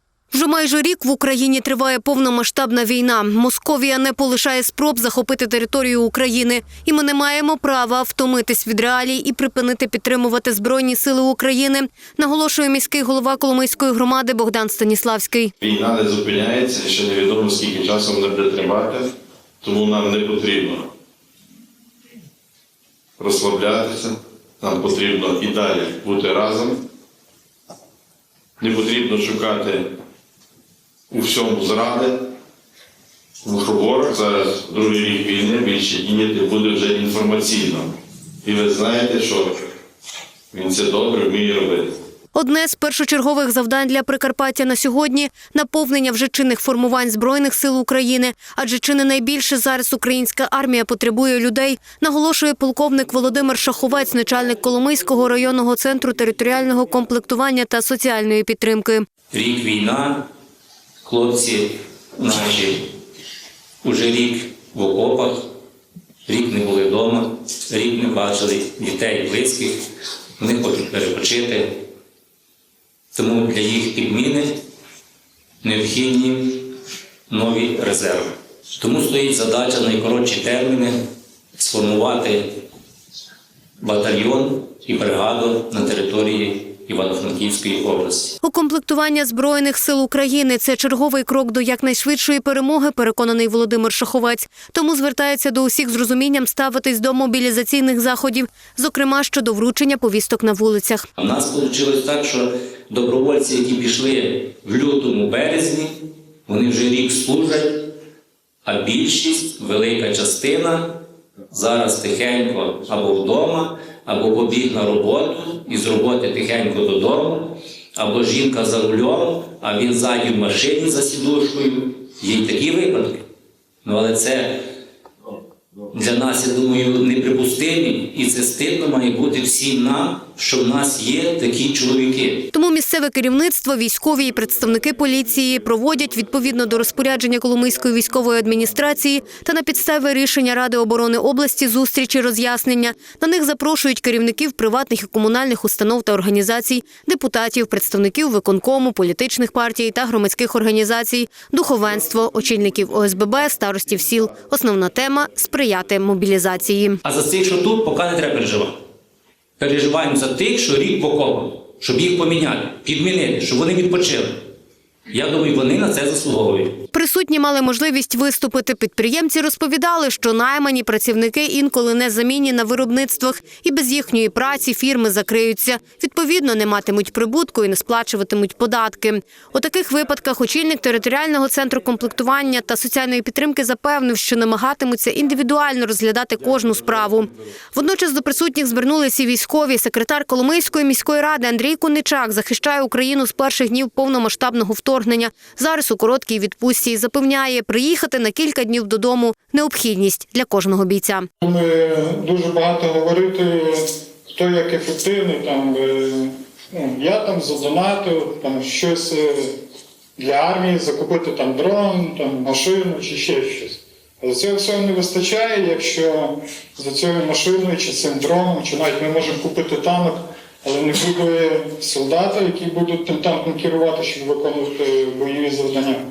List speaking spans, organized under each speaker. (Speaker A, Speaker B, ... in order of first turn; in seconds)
Speaker A: 0.3-15.5, 42.3-59.1, 88.4-101.1, 132.5-157.0, 166.9-201.3
Speaker B: 15.6-19.1, 19.6-20.9, 23.2-26.8, 28.6-29.9, 31.1-32.2, 33.4-37.9, 38.4-39.5, 40.5-41.9
Speaker C: 59.3-60.2, 61.0-62.9, 63.8-65.5, 66.3-69.7, 70.4-71.8, 73.1-74.6, 75.6-76.8, 77.3-81.0, 81.6-82.6, 83.8-88.4, 101.2-106.0, 106.5-107.9, 108.7-123.2, 123.8-124.7, 125.9-132.5, 157.0-158.8, 159.6-164.4, 165.1-166.8
Speaker D: 201.4-209.6, 210.2-226.0